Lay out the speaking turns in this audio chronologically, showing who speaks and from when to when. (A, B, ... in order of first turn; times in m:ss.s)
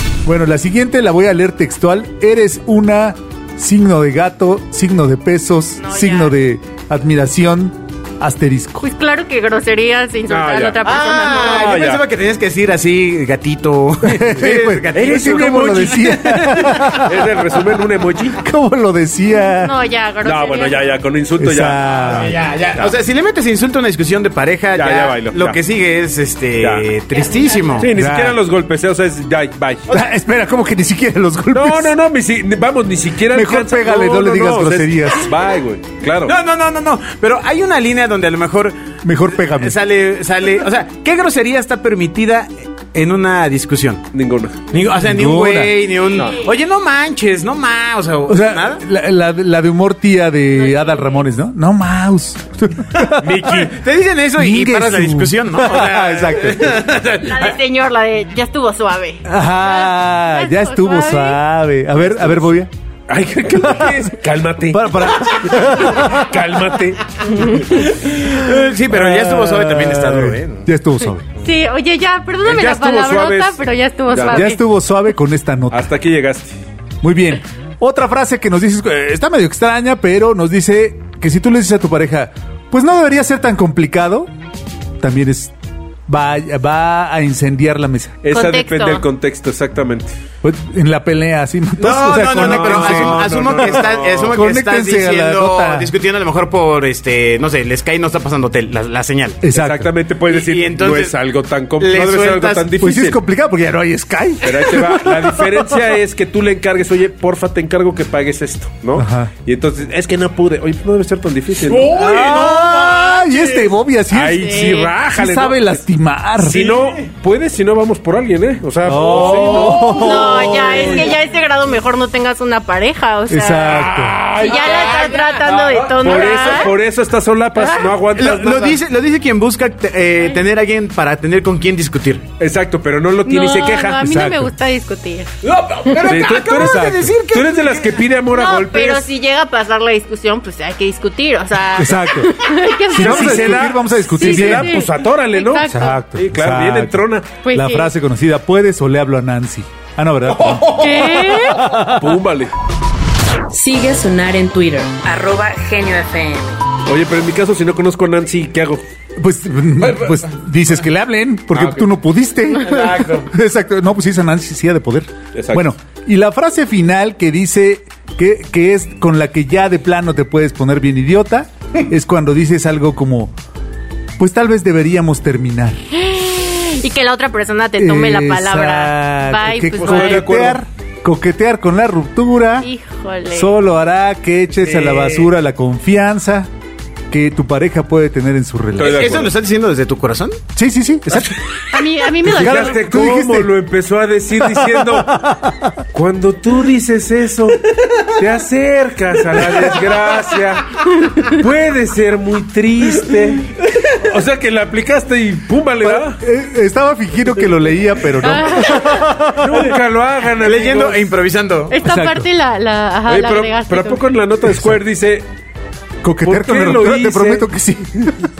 0:00.2-0:08.8 A
0:05.8-0:06.4 B
0:08.8-0:11.8 B
0:10.3-0:12.0 C
0:10.8-0:16.8 D
0:14.0-0:17.3 A
0:14.9-0:18.4 C
0:18.4-0:19.7 A
0:19.6-0:20.9 B
0:20.2-0:22.9 C
0:21.4-0:22.3 A
0:22.0-0:27.9 D
0:24.8-0:25.6 C
0:26.6-0:26.9 C
0:27.3-0:27.8 B
0:27.8-0:29.9 C
0:27.9-0:28.4 A
0:29.9-0:31.9 A
0:31.5-0:36.3 C
0:33.3-0:35.3 A
0:36.2-0:38.7 D
0:39.0-0:39.8 A
0:39.3-0:44.1 D
0:44.1-0:44.7 C
0:44.7-0:48.8 D
0:44.9-0:45.8 A
0:48.3-0:53.6 A
0:50.7-0:51.2 B
0:53.2-0:53.7 C
0:53.2-0:57.6 D
0:54.4-0:56.8 A
0:57.2-1:01.4 B
0:59.2-1:02.7 A
1:03.1-1:07.9 C
1:03.6-1:04.1 A
1:04.7-1:06.4 A
1:07.3-1:07.8 B
1:07.7-1:10.7 D
1:08.9-1:11.2 A
1:11.3-1:14.6 B
1:12.4-1:13.6 C
1:14.1-1:14.5 C
1:14.3-1:15.9 A
1:15.7-1:16.6 C
1:17.0-1:24.3 A
1:25.0-1:25.5 A
1:26.1-1:28.2 A
1:28.2-1:30.1 C
1:28.3-1:29.0 B
1:30.4-1:35.9 A
1:31.8-1:39.4 D
1:32.3-1:34.4 C
1:39.4-1:39.9 A
1:39.5-1:43.2 C
1:40.3-1:41.2 D
1:41.8-1:42.7 D
1:42.8-1:45.8 A
1:44.4-1:52.5 C
1:49.0-1:49.3 A
1:51.6-1:53.4 D
1:51.9-1:56.8 A
1:54.1-1:55.8 C
1:54.3-1:54.9 B
1:56.4-2:01.0 C
1:56.5-1:57.0 D
1:58.8-2:01.1 A
1:58.9-2:01.1 D
1:59.9-2:06.7 B
2:03.3-2:04.2 A
2:03.7-2:05.0 C
2:04.2-2:06.7 D
2:06.0-2:08.8 C
2:07.8-2:12.2 D
2:12.4-2:14.0 C
2:13.2-2:15.3 B
2:14.0-2:14.5 A
2:15.4-2:18.1 D
2:16.0-2:19.1 C
2:16.5-2:17.1 A
2:18.3-2:26.0 B
2:21.8-2:24.8 A
2:22.9-2:27.3 C
2:25.7-2:32.2 A
2:27.4-2:27.9 B
2:30.4-2:31.1 D
2:30.7-2:31.7 B
2:31.8-2:32.5 C
2:33.5-2:36.6 E
2:36.8-2:38.8 C
2:39.2-2:53.3 A
2:41.5-2:41.9 C
2:42.5-2:43.3 D
2:45.3-2:45.7 C
2:54.2-2:55.8 A
2:55.9-3:00.3 B
2:57.8-3:02.7 A
2:59.8-3:00.6 C
3:02.6-3:03.5 B
3:03.3-3:06.5 A
3:04.6-3:05.3 C
3:07.1-3:09.1 A
3:08.8-3:09.3 C
3:08.8-3:10.4 D
3:10.6-3:11.3 A
3:11.1-3:11.4 C
3:11.7-3:12.8 B
3:12.2-3:13.5 A
3:12.2-3:15.2 C
3:14.3-3:15.8 A
3:15.9-3:17.6 C
3:18.2-3:26.2 C
3:25.8-3:29.8 A
3:28.2-3:29.0 B
3:29.3-3:31.1 C
3:30.4-3:31.8 D
3:31.7-3:34.1 B
3:31.8-3:32.3 A
3:33.1-3:35.2 C
3:34.4-3:34.8 A
3:36.0-3:38.3 A
3:36.2-3:37.5 C